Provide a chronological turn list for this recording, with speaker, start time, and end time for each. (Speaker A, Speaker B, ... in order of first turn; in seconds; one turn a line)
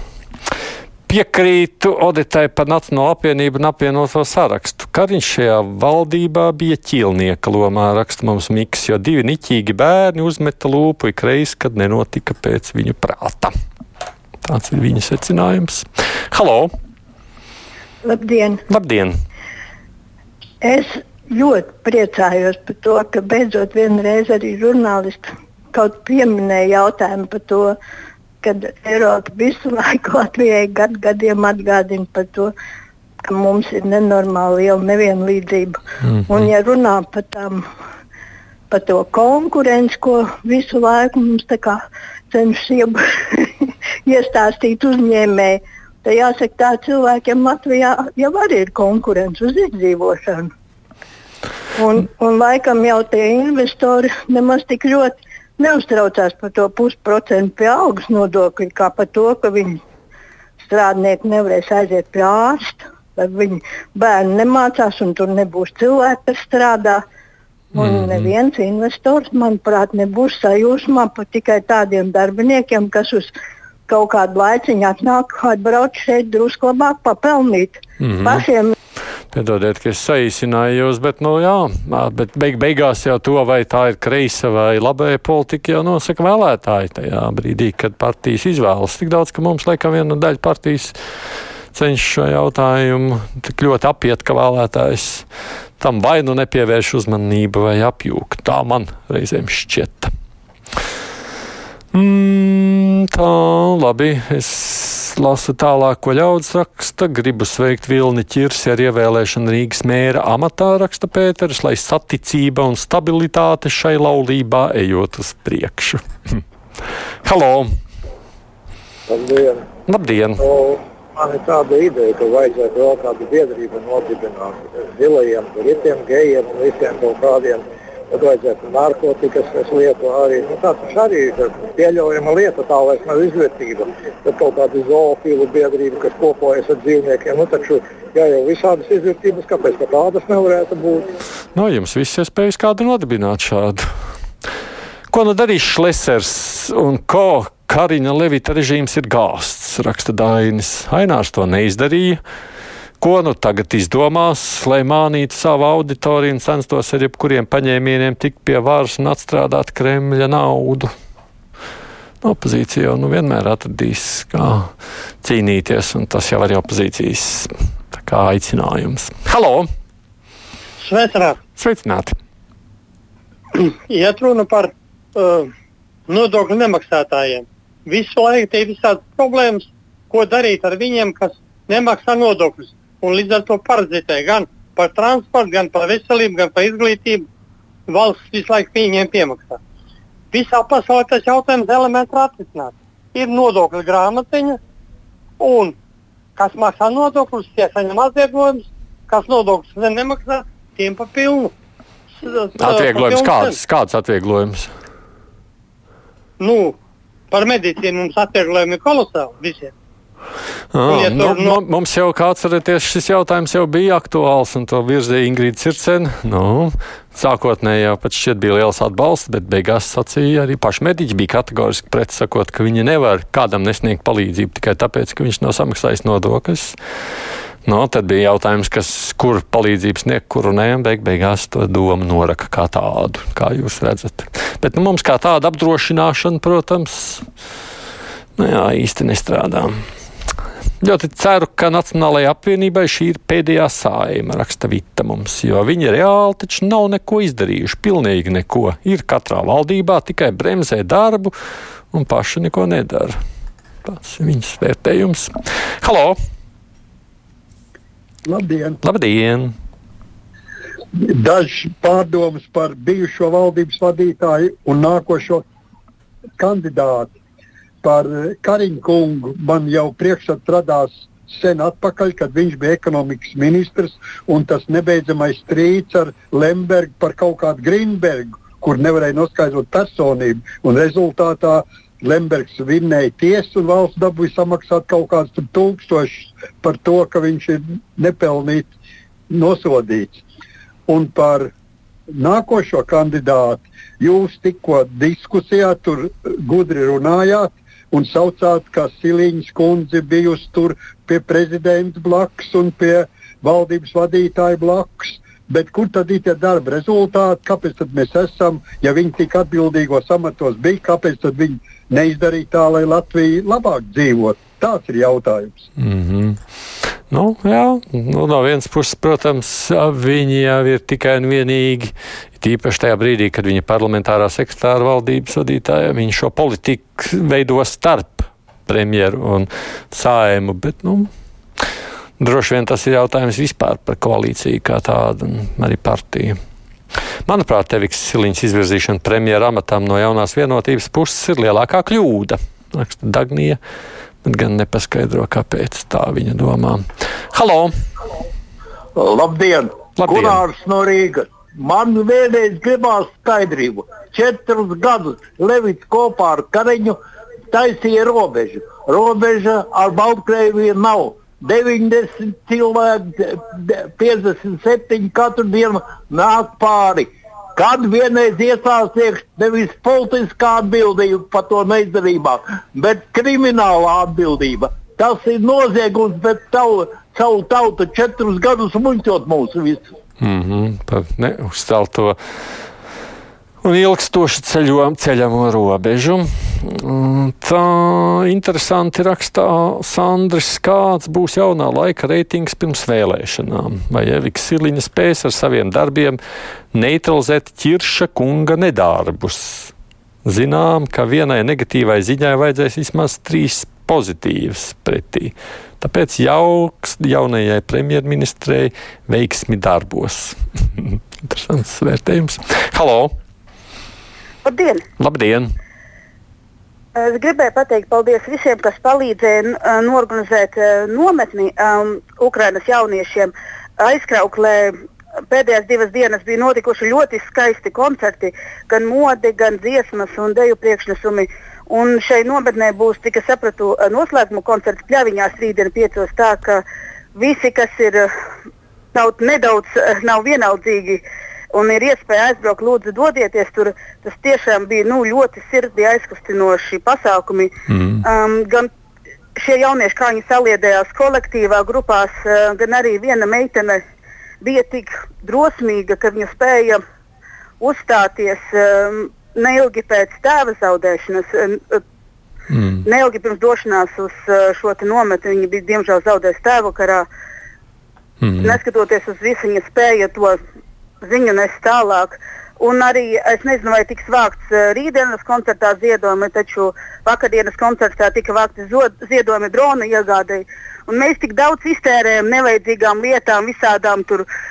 Speaker A: 1.1-13.5
Speaker A: 14.4-16.7
Speaker B: 18.0-18.6
Speaker A: 18.7-19.1
Speaker B: 20.6-27.7
Speaker B: 28.4-32.5
Speaker B: 33.2-37.6
Speaker B: 38.7-41.8
Speaker B: 42.3-50.5
Speaker B: 51.8-59.8
Speaker B: 60.7-67.0
Speaker B: 67.7-73.3
Speaker A: 67.8-68.3
Speaker B: 73.9-78.7
Speaker A: 78.0-78.4
Speaker A: 79.3-90.9
Speaker A: 91.7-95.2
Speaker A: 95.8-100.1
Speaker A: 101.9-116.4
Speaker A: 117.2-117.7
Speaker C: 119.1-119.7
Speaker A: 119.9-120.5
Speaker C: 120.4-141.1
Speaker A: 141.5-143.8
Speaker A: 145.1-152.2
Speaker A: 153.0-160.9
Speaker A: 162.2-164.7
Speaker A: 165.2-169.7
Speaker D: 170.8-171.4
Speaker A: 171.6-172.1
Speaker D: 173.5-175.5
Speaker D: 176.1-187.3
Speaker D: 187.9-189.6
Speaker D: 190.3-194.6
Speaker D: 195.4-195.8
Speaker D: 196.4-201.5
Speaker D: 202.2-203.6
Speaker A: 202.6-204.7
Speaker D: 206.4-206.8
Speaker D: 207.3-209.7
Speaker A: 210.7-226.8
Speaker D: 210.9-211.6
Speaker A: 227.7-237.2
Speaker A: 238.4-239.7
Speaker A: 240.8-251.3
Speaker A: 251.9-253.1
Speaker A: 253.8-256.1
Speaker E: 258.2-258.8
Speaker A: 258.8-259.5
Speaker E: 261.0-265.4
Speaker E: 266.4-267.1
Speaker E: 267.8-288.7
Speaker E: 289.3-290.2
Speaker E: 290.9-291.5
Speaker E: 292.1-315.6
Speaker A: 315.8-316.4
Speaker A: 317.1-331.1
Speaker A: 332.2-336.4
Speaker A: 337.3-343.6
Speaker A: 344.2-347.7
Speaker F: 348.9-357.0
Speaker A: 350.0-350.4
Speaker F: 357.5-379.8
Speaker A: 380.2-382.1
Speaker A: 383.6-396.2
Speaker A: 396.7-399.7
Speaker A: 400.2-413.1
Speaker G: 414.4-414.8
Speaker A: 415.0-415.5
Speaker G: 416.9-424.7
Speaker G: 425.3-436.6
Speaker G: 437.1-438.1
Speaker G: 438.9-447.5
Speaker A: 447.7-448.0
Speaker G: 448.0-448.7
Speaker G: 449.4-453.8
Speaker G: 454.4-456.8
Speaker G: 457.6-461.8
Speaker A: 462.5-462.8
Speaker G: 462.8-467.1
Speaker A: 468.2-468.6
Speaker G: 468.4-470.4
Speaker G: 471.0-484.2